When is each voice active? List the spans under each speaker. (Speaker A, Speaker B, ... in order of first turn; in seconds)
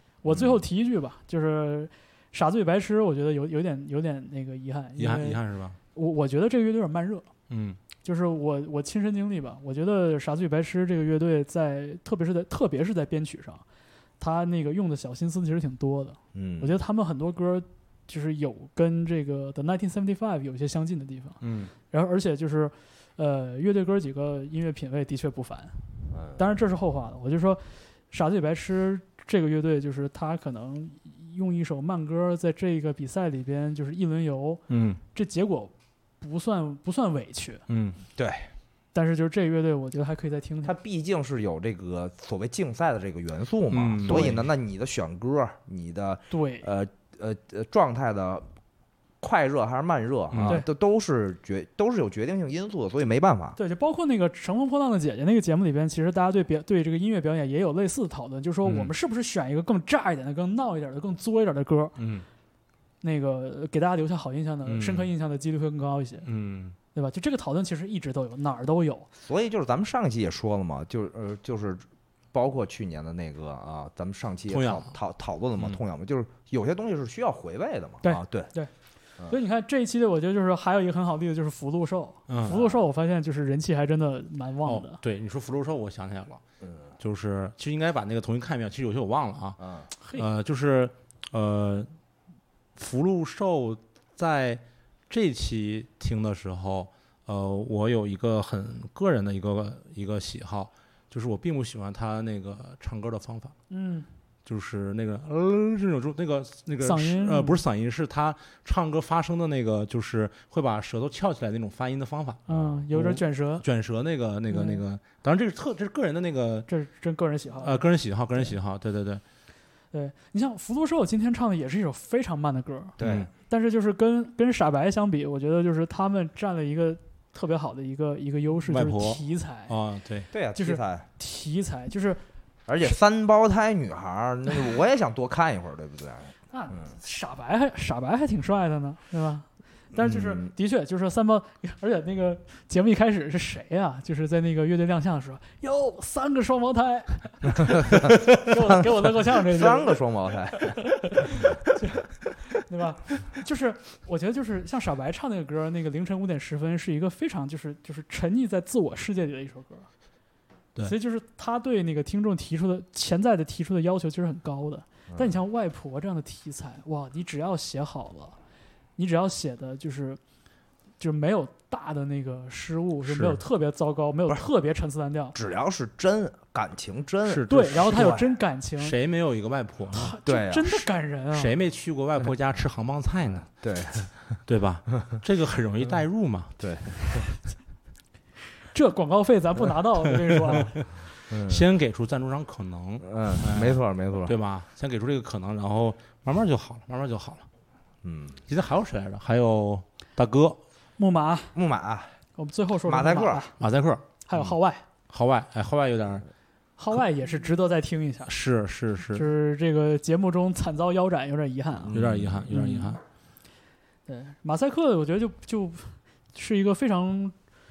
Speaker A: 0.2-5.4, 5.9-7.3, 8.0-13.6, 14.2-25.8, 26.3-37.6, 38.9-40.7, 46.3-46.7, 53.6-62.0, 63.0-66.3, 66.9-69.1, 78.0-78.7, 79.3-85.0, 103.7-104.1, 106.8-107.6, 112.5-113.6, 114.5-114.8, 116.7-117.8, 119.9-129.7, 130.5-132.2, 136.5-150.0, 150.5-159.9, 160.8-168.3, 169.0-170.2, 171.0-175.3, 177.5-178.9, 179.9-181.5, 188.7-191.1, 201.0-201.5, 202.4-203.6, 204.2-204.8, 206.8-208.3, 209.1-211.9, 212.5-212.9, 214.1-217.3
Speaker B: 0.3-0.6, 16.3-16.8, 26.1-26.4, 38.2-38.5, 40.6-48.5, 49.2-53.6, 69.2-78.5, 82.5-82.8, 89.6-89.9, 123.0-123.3, 130.3-131.1, 132.7-136.9, 139.9-140.5, 148.0-150.8, 175.3-178.3, 180.2-180.9, 183.4-184.1, 186.6-187.2, 191.3-191.6, 193.0-194.3, 198.0-198.4, 201.5-202.2, 202.8-203.5, 211.8-212.5
Speaker C: 5.0-5.8, 7.5-7.8, 21.4-21.7, 34.7-35.0, 37.7-38.0, 43.7-44.4, 50.3-50.6, 58.6-58.9, 62.0-62.2, 64.7-65.1, 66.2-66.7, 74.5-74.9, 82.3-82.6, 84.6-86.4, 87.0-91.9, 92.8-103.5, 104.4-116.7, 117.6-119.2, 123.0-123.3, 128.7-130.3, 173.0-173.4, 177.2-178.0, 178.8-180.1, 181.3-183.5, 184.4-186.6, 191.4-197.4, 198.5-200.6, 203.6-204.2, 205.1-206.3, 208.2-209.2, 211.9-213.0